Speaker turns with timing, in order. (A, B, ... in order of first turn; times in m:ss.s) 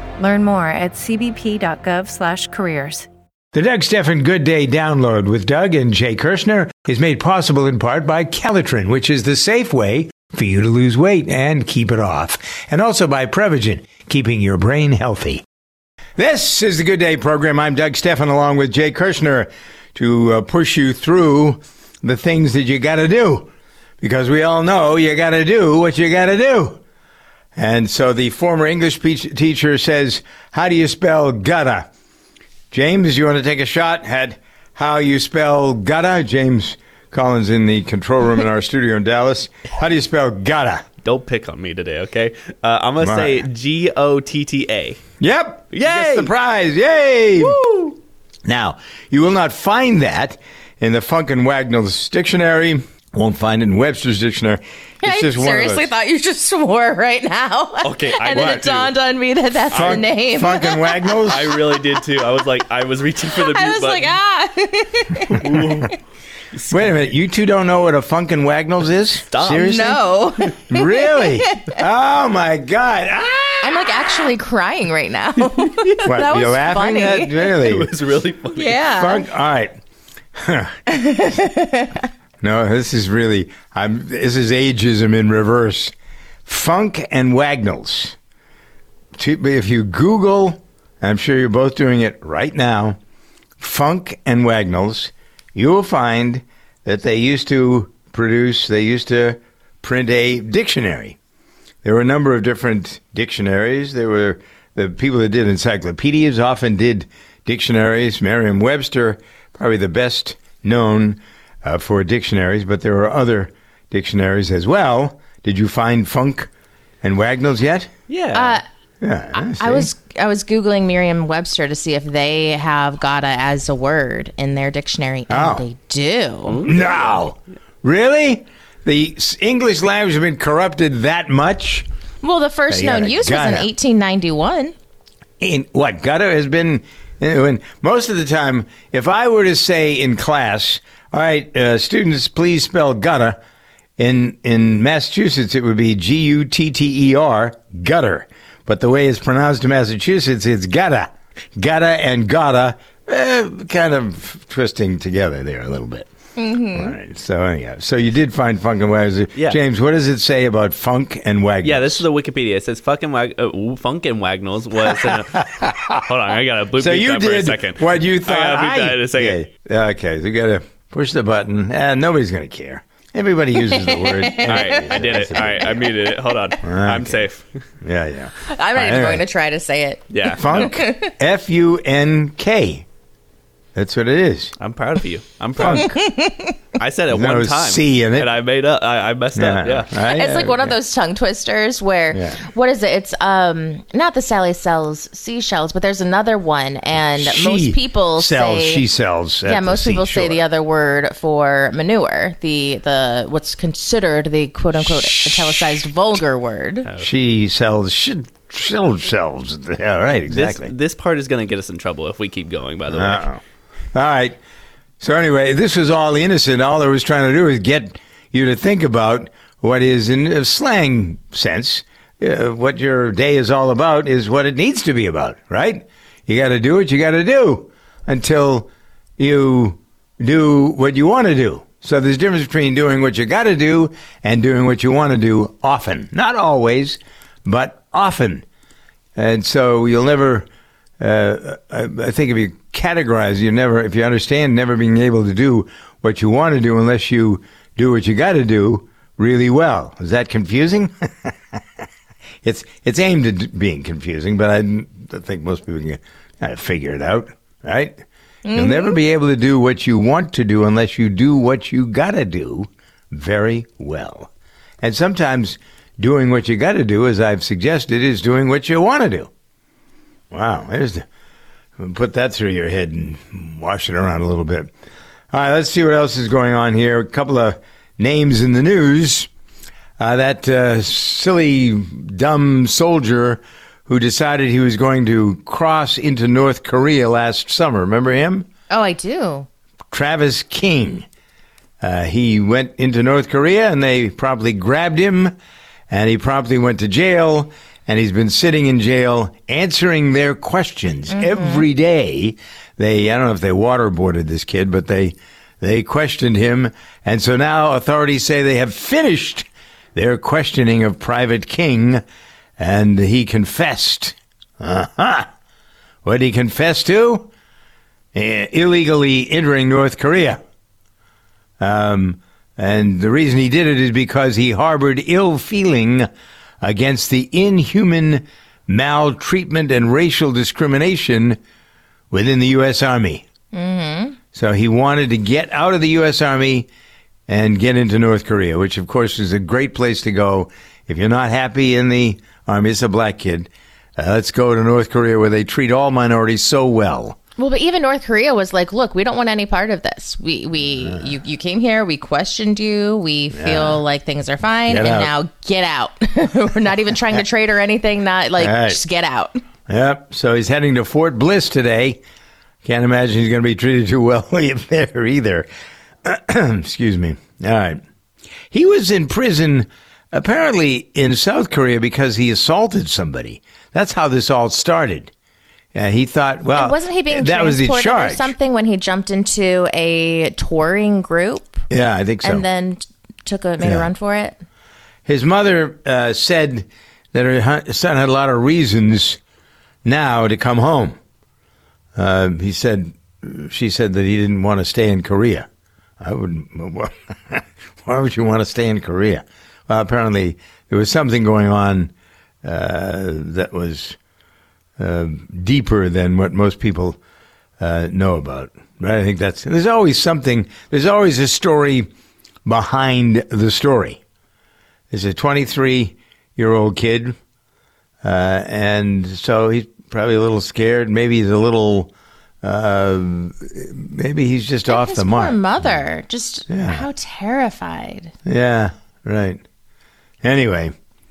0:00.2-0:03.1 A
0:03.5-0:15.4 B
0:16.2-0:26.8 B
0:27.6-0:31.9 B
0:32.7-0:40.8 B
0:41.0-0:45.0 C
0:43.0-0:43.5 B
0:45.2-0:47.6 B
0:45.7-0:46.3 C
0:48.4-0:55.9 B
0:55.0-1:01.2 D
0:57.8-0:58.9 C
0:58.3-0:58.7 B
0:59.7-1:00.0 C
0:59.7-1:01.6 B
1:01.3-1:04.1 C
1:03.3-1:05.9 D
1:05.4-1:05.9 C
1:05.4-1:05.8 B
1:06.5-1:07.0 C
1:06.7-1:10.0 B
1:09.3-1:09.9 C
1:09.4-1:11.7 D
1:10.7-1:13.9 B
1:13.6-1:17.7 D
1:16.0-1:17.9 B
1:17.6-1:18.8 C
1:18.5-1:19.2 D
1:18.8-1:19.8 B
1:20.3-1:20.8 B
1:20.9-1:22.0 D
1:22.4-1:25.9 B
1:26.4-1:28.2 B
1:29.2-1:33.0 B
1:33.6-1:41.2 B
1:41.8-1:56.5 B
1:57.0-1:57.9 B
1:58.1-1:58.6 C
1:58.3-1:58.6 D
1:59.0-1:59.9 B
1:59.3-2:06.6 D
2:05.3-2:05.6 B
2:06.5-2:07.2 C
2:06.6-2:11.9 B
2:12.2-2:14.7 D
2:12.7-2:13.7 B
2:15.4-2:23.4 B
2:24.0-2:36.1 B
2:36.4-2:36.9 D
2:36.7-2:42.0 B
2:41.6-2:49.4 C
2:44.8-2:46.0 B
2:46.8-2:55.9 B
2:53.6-2:55.7 D
2:54.4-2:57.6 C
2:56.6-2:57.2 B
2:57.8-2:59.2 B
2:58.5-3:01.1 D
3:00.1-3:00.6 C
3:00.3-3:02.8 B
3:03.7-3:04.5 B
3:04.6-3:05.9 C
3:05.6-3:06.0 B
3:05.7-3:06.5 D
3:06.8-3:09.9 C
3:07.1-3:08.3 B
3:09.3-3:10.8 B
3:10.0-3:18.8 D
3:12.1-3:12.4 B
3:17.2-3:20.4 B
3:19.4-3:26.9 D
3:27.0-3:30.7 B
3:30.3-3:33.2 C
3:32.9-3:33.4 B
3:33.9-3:34.4 B
3:35.0-3:58.4 B
3:59.2-4:00.5 B
4:01.0-4:11.8 B
4:12.4-4:18.0 B
4:18.4-4:19.0 D
4:18.5-4:24.3 B
4:24.8-4:29.3 B
4:30.3-4:31.0 B
4:31.8-4:34.7 B
4:35.3-4:39.3 B
4:40.0-4:48.5 B
4:48.7-4:49.5 D
4:49.9-4:51.0 B
4:51.8-4:55.3 B
4:55.9-5:12.0 B
5:01.1-5:01.6 D
5:12.6-5:15.3 B
5:16.0-5:17.3 B
5:18.1-5:20.4 B
5:21.6-5:26.1 B
5:26.6-5:31.4 B
5:32.1-5:33.2 B
5:33.5-5:34.2 D
5:34.3-5:36.7 B
5:37.3-5:47.2 B
5:47.4-5:59.4 D
5:50.6-5:51.1 B
5:53.3-5:53.8 B
5:54.7-5:55.1 B
5:58.4-5:58.8 B
5:59.7-6:02.0 B
6:02.6-6:05.5 B
6:06.0-6:07.8 B
6:08.5-6:15.1 B
6:15.7-6:18.3 B
6:16.5-6:21.6 D
6:21.7-6:22.4 B
6:22.2-6:24.4 D
6:23.6-6:23.9 B
6:25.0-6:29.2 B
6:29.8-6:31.0 B
6:31.9-6:35.5 B
6:36.0-6:41.9 B
6:42.4-6:44.0 B
6:44.8-6:47.0 B
6:47.6-6:51.9 B
6:52.4-6:54.0 B
6:54.9-6:57.2 B
6:58.0-7:05.8 B
7:04.7-7:08.1 D
7:06.5-7:06.8 B
7:08.2-7:09.4 B
7:10.2-7:10.7 B